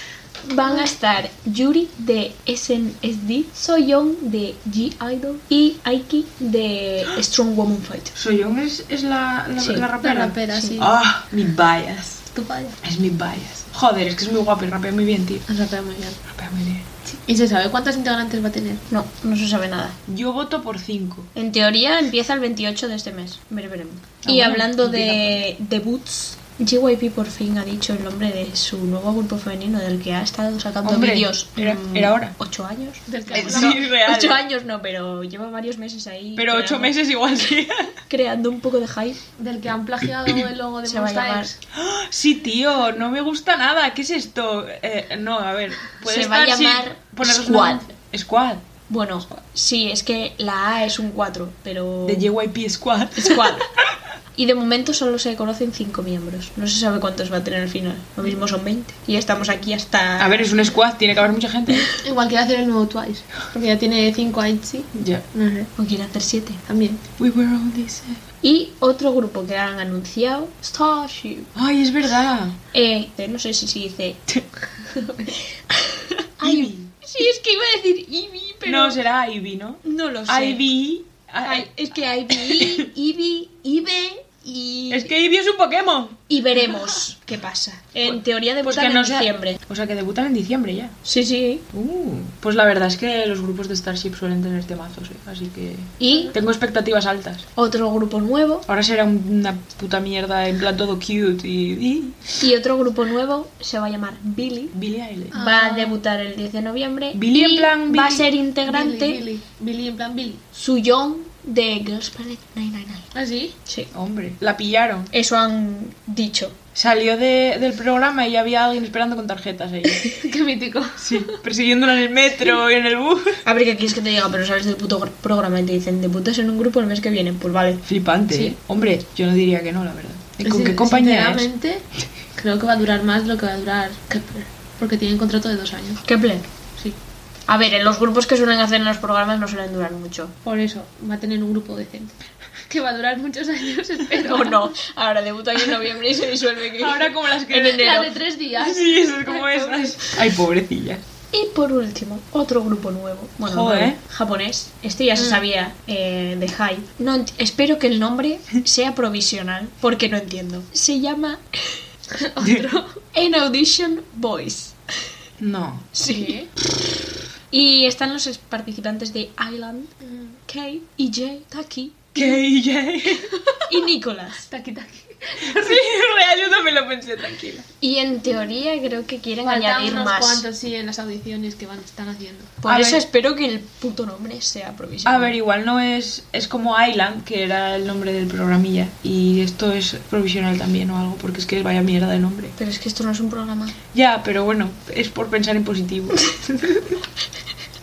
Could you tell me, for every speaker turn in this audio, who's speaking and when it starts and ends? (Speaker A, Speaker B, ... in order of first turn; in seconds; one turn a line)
Speaker A: 0.5-8.1
Speaker B: 8.1-12.2
Speaker A: 9.6-9.8
Speaker C: 10.0-10.9
Speaker A: 10.5-10.8
Speaker C: 12.3-12.8
Speaker B: 12.8-15.4
Speaker C: 15.5-16.2
Speaker B: 16.3-16.9
Speaker C: 17.1-18.8
Speaker A: 18.9-20.0
Speaker B: 20.1-21.3
Speaker A: 21.3-36.9
Speaker B: 24.2-25.4
Speaker B: 30.8-32.3
Speaker C: 33.1-33.8
Speaker B: 33.3-34.4
Speaker B: 36.4-37.9
Speaker A: 38.1-39.2
Speaker C: 39.4-41.5
Speaker A: 40.8-41.5
Speaker B: 41.7-48.6
Speaker A: 46.0-47.9
Speaker A: 48.9-52.3
Speaker B: 52.0-53.7
Speaker A: 53.2-53.7
Speaker A: 54.4-60.5
Speaker B: 60.2-61.9
Speaker C: 62.0-65.7
Speaker B: 64.9-65.2
Speaker A: 65.8-66.6
Speaker C: 66.7-67.0
Speaker B: 67.2-68.2
Speaker A: 68.4-71.5
Speaker B: 71.5-72.6
Speaker A: 72.7-74.2
Speaker C: 74.9-75.3
Speaker A: 75.7-79.0
Speaker B: 76.4-76.9
Speaker B: 78.6-81.7
Speaker A: 79.8-80.6
Speaker A: 81.4-85.1
Speaker B: 82.3-82.9
Speaker B: 84.9-86.2
Speaker A: 86.3-89.6
Speaker B: 88.0-91.0
Speaker A: 91.0-91.6
Speaker B: 91.7-97.4
Speaker A: 96.0-96.3
Speaker A: 97.5-98.7
Speaker B: 98.7-102.2
Speaker A: 102.4-104.7
Speaker B: 104.7-105.3
Speaker C: 105.3-106.0
Speaker A: 105.3-109.2
Speaker B: 107.1-108.3
Speaker C: 108.6-110.4
Speaker A: 110.5-113.1
Speaker C: 113.1-113.5
Speaker B: 113.9-115.1
Speaker A: 115.1-116.6
Speaker B: 116.7-120.1
Speaker C: 120.0-121.4
Speaker B: 121.0-123.4
Speaker A: 123.4-127.8
Speaker B: 127.8-131.5
Speaker C: 130.4-131.8
Speaker C: 132.4-136.0
Speaker A: 136.0-136.5
Speaker A: 137.5-140.3
Speaker C: 140.4-142.1
Speaker C: 142.7-144.7
Speaker A: 144.2-148.1
Speaker B: 146.7-151.0
Speaker C: 147.5-149.9
Speaker A: 151.3-161.8
Speaker B: 153.4-154.0
Speaker C: 155.2-155.4
Speaker C: 162.1-163.0
Speaker B: 162.4-162.7
Speaker A: 163.1-164.8
Speaker B: 165.4-165.9
Speaker A: 165.9-166.5
Speaker C: 166.1-166.4
Speaker A: 167.5-169.9
Speaker C: 170.0-170.3
Speaker A: 170.5-172.4
Speaker B: 172.1-173.3
Speaker A: 173.7-174.5
Speaker C: 174.5-175.8
Speaker B: 175.4-177.7
Speaker A: 177.8-180.4
Speaker C: 179.4-182.6
Speaker A: 182.6-185.3
Speaker B: 182.7-183.0
Speaker B: 185.0-192.6
Speaker A: 192.6-193.7
Speaker B: 193.9-197.0